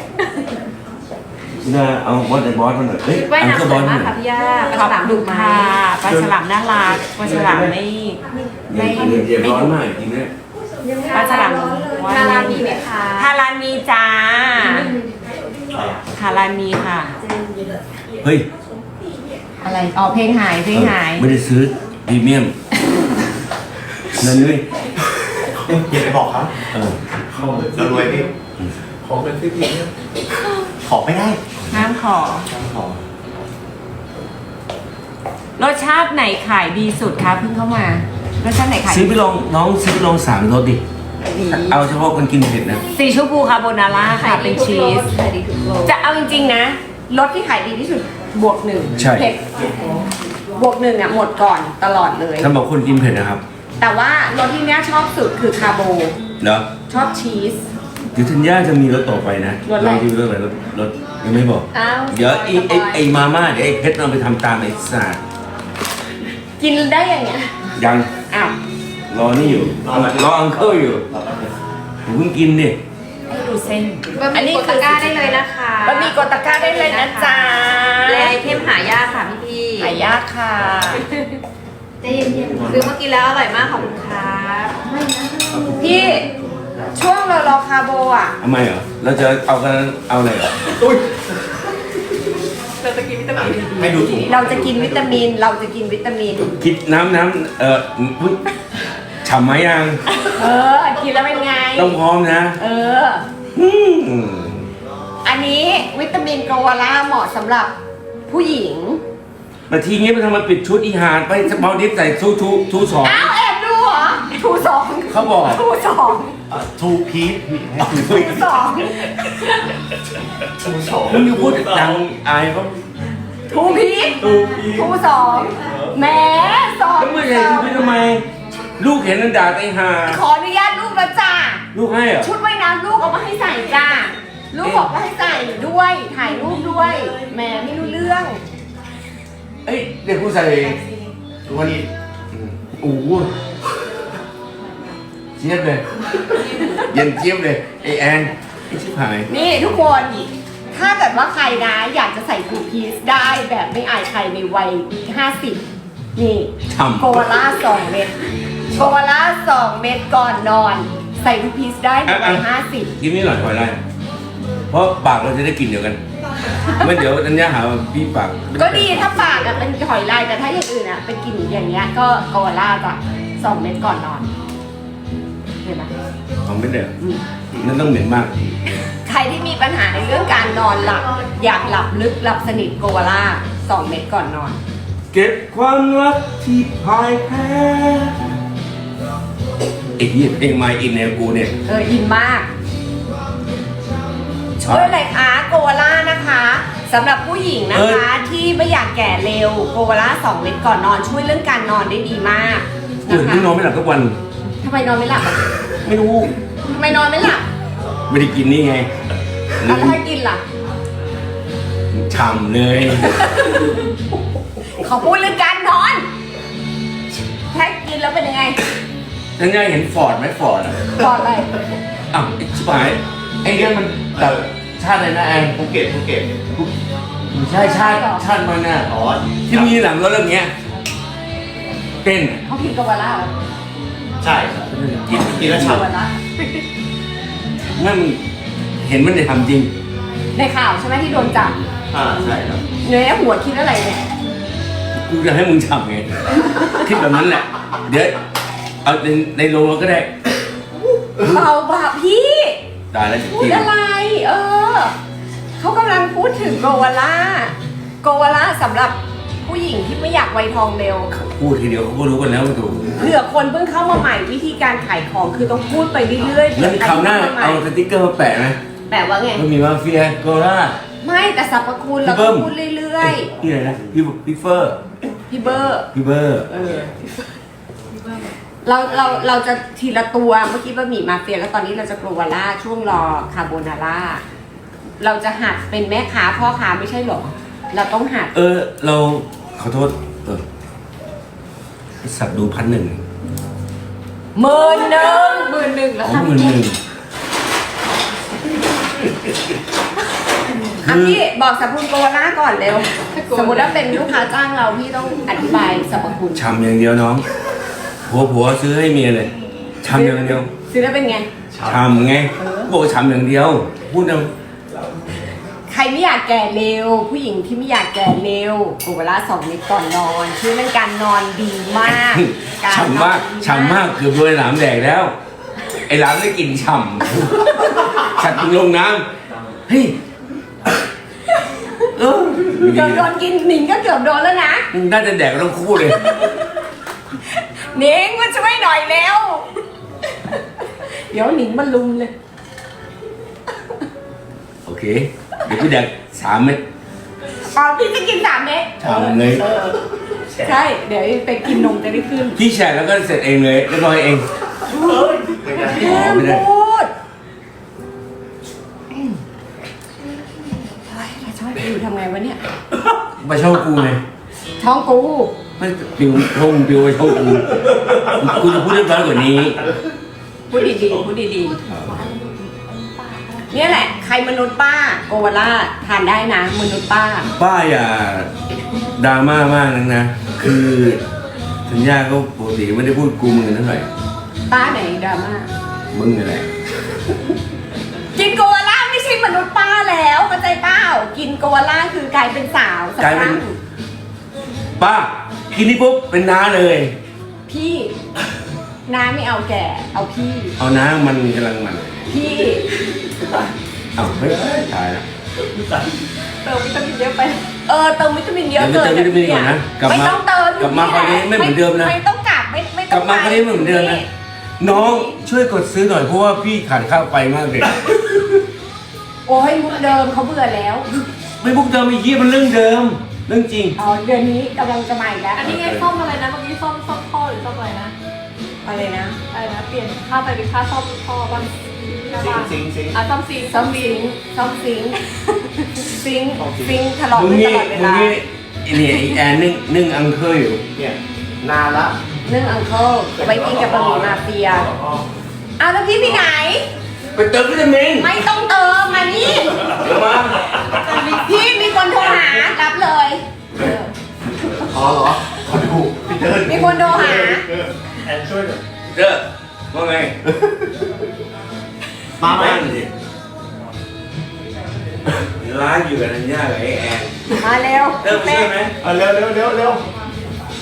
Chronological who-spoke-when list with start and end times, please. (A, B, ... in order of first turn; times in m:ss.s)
0:01.6-0:04.1 A
0:03.1-0:05.8 B
0:04.7-0:09.7 C
0:07.2-0:07.7 A
0:08.7-0:10.3 A
0:10.8-0:13.3 B
0:11.1-0:14.9 C
0:14.6-0:15.0 B
0:15.7-0:16.0 D
0:16.2-0:17.2 C
0:17.3-0:17.8 B
0:18.2-0:18.5 A
0:19.6-0:21.3 C
0:20.7-0:22.5 A
0:24.1-0:24.6 A
0:25.7-0:26.5 D
0:26.7-0:27.0 A
0:27.3-0:28.3 E
0:27.6-0:28.3 D
0:29.0-0:29.9 E
0:30.8-0:31.4 D
0:31.7-0:32.5 C
0:32.5-0:33.0 D
0:35.6-0:39.1 C
0:38.9-0:40.8 A
0:41.2-0:41.8 C
0:41.5-0:42.8 A
0:43.0-0:45.1 C
0:44.1-0:45.9 B
0:45.8-0:49.7 C
0:49.0-0:49.3 A
0:50.6-0:52.5 C
0:52.4-0:53.4 A
0:53.8-0:56.2 C
0:56.4-0:56.7 A
0:56.9-0:57.7 C
0:58.1-1:05.2 A
0:59.7-1:00.1 C
1:01.8-1:03.0 C
1:06.6-1:07.5 C
1:07.8-1:08.1 A
1:08.3-1:08.6 C
1:09.1-1:11.0 A
1:09.8-1:11.5 D
1:12.0-1:12.8 A
1:13.3-1:15.2 C
1:14.1-1:20.0 B
1:15.8-1:18.4 C
1:19.8-1:21.0 C
1:22.0-1:25.6 B
1:25.8-1:26.3 C
1:27.0-1:28.4 C
1:28.4-1:30.6 A
1:32.8-1:34.2 B
1:33.4-1:35.2 D
1:33.9-1:36.6 C
1:36.6-1:38.4 A
1:39.2-1:40.0 A
1:40.4-1:42.0 C
1:41.8-1:42.6 A
1:42.6-1:43.2 C
1:43.5-1:44.7 A
1:45.2-1:47.7 C
1:48.3-1:49.0 C
1:49.7-1:53.3 A
1:53.0-1:56.4 C
1:55.1-1:55.6 A
1:56.5-1:58.4 D
1:57.8-1:58.5 A
1:58.0-1:59.5 C
2:00.6-2:01.4 D
2:01.1-2:02.8 A
2:01.1-2:02.0 E
2:03.5-2:07.9 C
2:04.2-2:04.9 E
2:05.7-2:05.9 E
2:07.0-2:08.2 A
2:08.8-2:10.2 A
2:10.1-2:11.6 C
2:11.7-2:12.3 A
2:12.2-2:18.4 C
2:14.6-2:14.9 A
2:19.6-2:20.8 A
2:21.5-2:21.9 D
2:21.5-2:23.3 A
2:25.4-2:25.8 A
2:26.8-2:29.3 A
2:29.3-2:35.6 C
2:36.2-2:38.1 C
2:36.7-2:37.4 A
2:38.7-2:42.9 C
2:42.1-2:42.4 A
2:43.0-2:43.8 A
2:44.7-2:46.0 A
2:46.8-2:49.2 A
2:48.6-2:54.3 C
2:55.6-2:55.9 C
2:56.4-2:56.9 A
2:57.6-2:58.8 A
2:59.0-3:04.6 C
3:05.1-3:08.2 A
3:10.0-3:11.6 A
3:11.7-3:12.5 C
3:14.6-3:23.5 C
3:14.6-3:14.9 A
3:17.7-3:18.0 A
3:23.1-3:24.2 A
3:24.6-3:25.4 C
3:25.8-3:26.3 A
3:26.7-3:27.4 C
3:28.1-3:28.9 A
3:29.6-3:30.0 A
3:29.6-3:30.4 C
3:31.9-3:33.3 A
3:34.8-3:36.1 C
3:37.5-3:38.6 C
3:39.4-3:40.9 A
3:41.0-3:41.5 C
3:42.1-3:45.6 A
3:45.5-3:46.4 D
3:47.3-3:48.9 A
3:47.5-3:48.2 C
3:48.9-3:49.8 D
3:49.5-3:50.5 A
3:52.0-3:52.4 A
3:52.5-3:53.3 C
3:54.2-3:55.9 D
3:54.7-3:55.9 A
3:55.5-3:56.2 C
3:57.8-3:58.2 A
3:58.8-3:59.7 A
4:00.4-4:01.6 C
4:01.9-4:02.6 D
4:02.8-4:04.0 C
4:05.0-4:08.2 A
4:08.8-4:10.1 A
4:11.2-4:12.6 C
4:11.2-4:11.4 A
4:12.9-4:13.7 A
4:13.3-4:14.9 C
4:15.6-4:21.1 C
4:21.1-4:23.1 A
4:23.0-4:27.6 C
4:26.6-4:28.6 A
4:28.9-4:29.4 C
4:29.4-4:30.8 A
4:31.0-4:33.3 C
4:32.0-4:32.5 A
4:33.0-4:34.8 A
4:35.3-4:35.9 C
4:35.9-4:36.8 A
4:36.5-4:36.9 C
4:38.6-4:44.2 C
4:45.0-4:48.3 C
4:48.3-4:50.4 A
4:52.0-4:53.0 A
4:54.4-4:56.6 C
4:54.6-4:55.6 B
4:56.0-4:56.8 A
5:00.8-5:06.4 C
5:00.8-5:01.2 A
5:03.1-5:04.0 B
5:06.3-5:07.3 A
5:08.1-5:09.3 A
5:09.8-5:10.5 A
5:09.9-5:11.3 C
5:11.6-5:11.8 D
5:11.6-5:14.3 A
5:12.4-5:12.7 C
5:15.7-5:23.8 C
5:21.8-5:25.1 A
5:25.9-5:29.1 A
5:29.7-5:30.0 A
5:32.0-5:33.1 A
5:32.6-5:34.7 C
5:34.7-5:36.2 A
5:36.0-5:36.4 C
5:37.4-5:39.5 C
5:41.1-5:42.1 C
5:44.7-5:46.6 A
5:47.5-5:49.8 C
5:48.8-5:49.4 A
5:50.3-5:50.6 E
5:50.4-5:52.4 C
5:52.4-5:54.2 A
5:54.7-5:56.9 C
5:54.8-5:55.5 E
5:55.4-5:55.8 D
5:55.7-5:56.5 A
6:00.9-6:02.4 C
6:03.2-6:04.0 A
6:04.6-6:05.3 C
6:05.6-6:09.6 A
6:10.5-6:11.6 C
6:11.6-6:13.5 B
6:11.7-6:12.0 A
6:13.5-6:17.3 C
6:17.4-6:18.3 A
6:19.0-6:21.0 A
6:21.7-6:23.9 A
6:24.5-6:25.5 C
6:25.9-6:26.5 A
6:28.2-6:33.6 C
6:33.0-6:33.4 A
6:34.8-6:37.0 A
6:37.5-6:38.0 C
6:38.9-6:40.6 C
6:40.6-6:42.1 A
6:42.1-6:42.6 C
6:44.0-6:45.1 A
6:45.4-6:46.0 E
6:46.4-6:47.5 B
6:47.7-6:54.1 C
6:48.6-6:52.0 A
6:52.9-6:54.0 A
6:54.6-6:58.2 A
6:54.7-6:55.1 C
6:59.3-7:00.9 C
7:01.4-7:03.8 A
7:03.8-7:05.5 C
7:05.4-7:07.9 B
7:05.4-7:05.9 A
7:08.6-7:09.2 C
7:09.3-7:14.0 B
7:12.1-7:13.0 D
7:13.4-7:15.0 C
7:15.8-7:18.2 C
7:16.4-7:16.8 D
7:17.1-7:20.6 A
7:20.8-7:22.0 D
7:22.2-7:24.7 C
7:23.2-7:25.0 E
7:25.6-7:26.7 C
7:27.2-7:28.2 A
7:28.0-7:29.8 C
7:29.6-7:30.7 A
7:31.0-7:33.9 C
7:34.7-7:37.7 D
7:36.4-7:37.4 C
7:38.0-7:38.6 E
7:38.9-7:40.2 A
7:42.2-7:42.6 D
7:42.2-7:42.9 A
7:45.2-7:47.1 A
7:47.4-7:48.5 C
7:48.0-7:48.7 A
7:48.8-7:49.8 D